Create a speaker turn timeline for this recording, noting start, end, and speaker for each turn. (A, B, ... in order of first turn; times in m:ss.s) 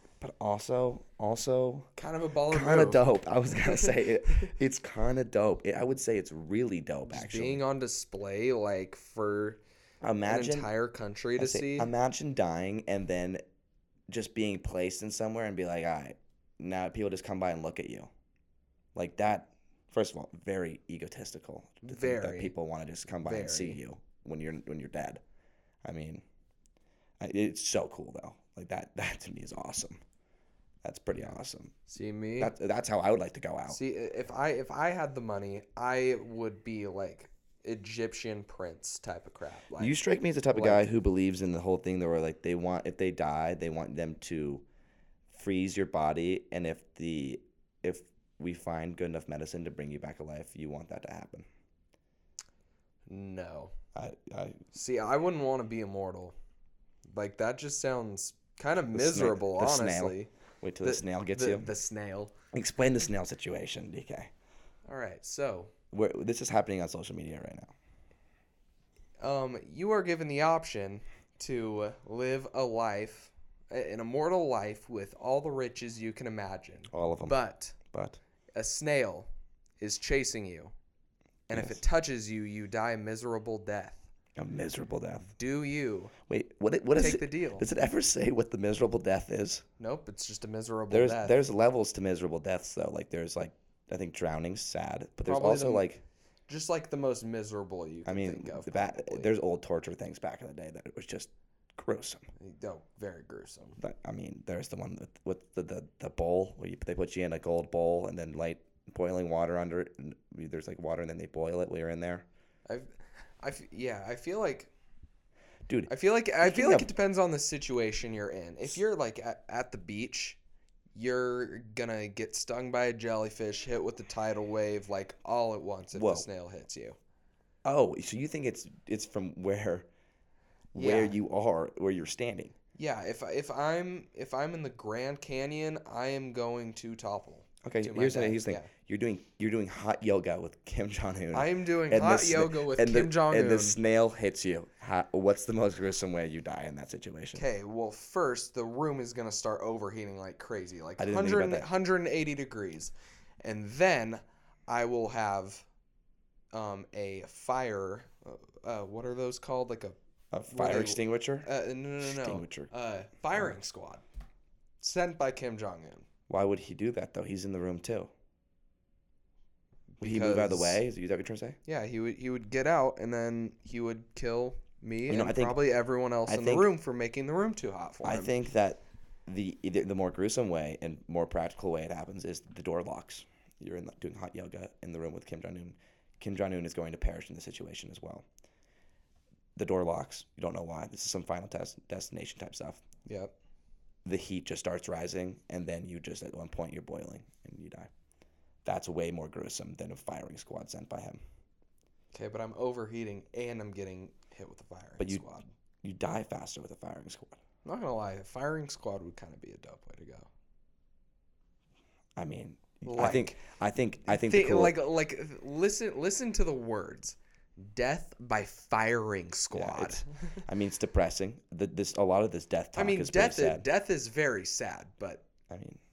0:00.2-0:01.9 A
0:02.0-0:03.0 B
0:02.5-0:07.6 A
0:03.6-0:04.5 B
0:07.1-0:09.6 B
0:10.0-0:10.7 A
0:10.2-0:11.9 B
0:11.4-0:13.4 A
0:14.1-0:18.1 A
0:18.9-0:25.2 A
0:21.8-0:22.5 B
0:23.2-0:23.8 B
0:25.8-0:26.2 A
0:27.2-0:30.0 A
0:30.8-0:31.7 A
0:31.9-0:32.5 B
0:32.4-0:33.8 A
0:33.7-0:40.0 B
0:39.8-0:44.6 A
0:40.5-0:40.9 B
0:45.3-0:51.5 A
0:53.0-0:53.7 B
0:53.9-0:54.7 A
0:54.7-0:56.3 B
0:57.1-1:00.3 B
0:58.9-1:01.7 A
1:00.8-1:02.3 B
1:02.5-1:04.3 A
1:04.8-1:05.7 B
1:05.9-1:07.7 A
1:09.2-1:17.8 B
1:16.9-1:18.2 A
1:18.5-1:20.7 B
1:21.5-1:24.0 B
1:21.5-1:21.8 A
1:24.4-1:25.3 A
1:25.2-1:26.1 B
1:26.3-1:29.6 A
1:27.0-1:27.6 B
1:29.8-1:31.4 B
1:30.9-1:36.0 A
1:35.2-1:35.9 B
1:36.5-1:39.3 B
1:38.0-1:42.3 A
1:42.4-1:43.8 B
1:43.8-1:52.2 A
1:52.7-1:54.7 B
1:55.7-1:56.9 A
1:55.9-2:00.4 B
2:00.9-2:07.0 B
2:05.9-2:06.3 A
2:07.6-2:09.9 A
2:10.7-2:12.5 A
2:10.7-2:11.2 B
2:12.7-2:18.7 B
2:17.6-2:27.4 A
2:21.3-2:23.8 B
2:27.3-2:35.6 B
2:31.0-2:31.7 A
2:36.5-2:40.0 B
2:40.3-2:41.5 A
2:40.5-2:44.0 B
2:42.0-2:42.7 A
2:44.8-2:46.0 B
2:46.3-2:48.1 A
2:50.0-2:50.8 B
2:50.0-2:51.6 A
2:51.6-2:58.3 B
2:55.1-2:55.6 A
2:56.3-2:56.7 A
2:58.0-3:08.2 A
3:09.6-3:12.8 A
3:13.0-3:13.3 B
3:14.0-3:17.9 A
3:18.6-3:21.2 A
3:22.1-3:25.4 B
3:25.0-3:25.2 A
3:25.8-3:27.4 A
3:27.6-3:30.3 B
3:32.2-3:34.8 A
3:32.8-3:33.4 B
3:34.1-3:40.0 B
3:39.5-3:43.6 A
3:42.7-3:45.2 B
3:45.5-3:45.8 A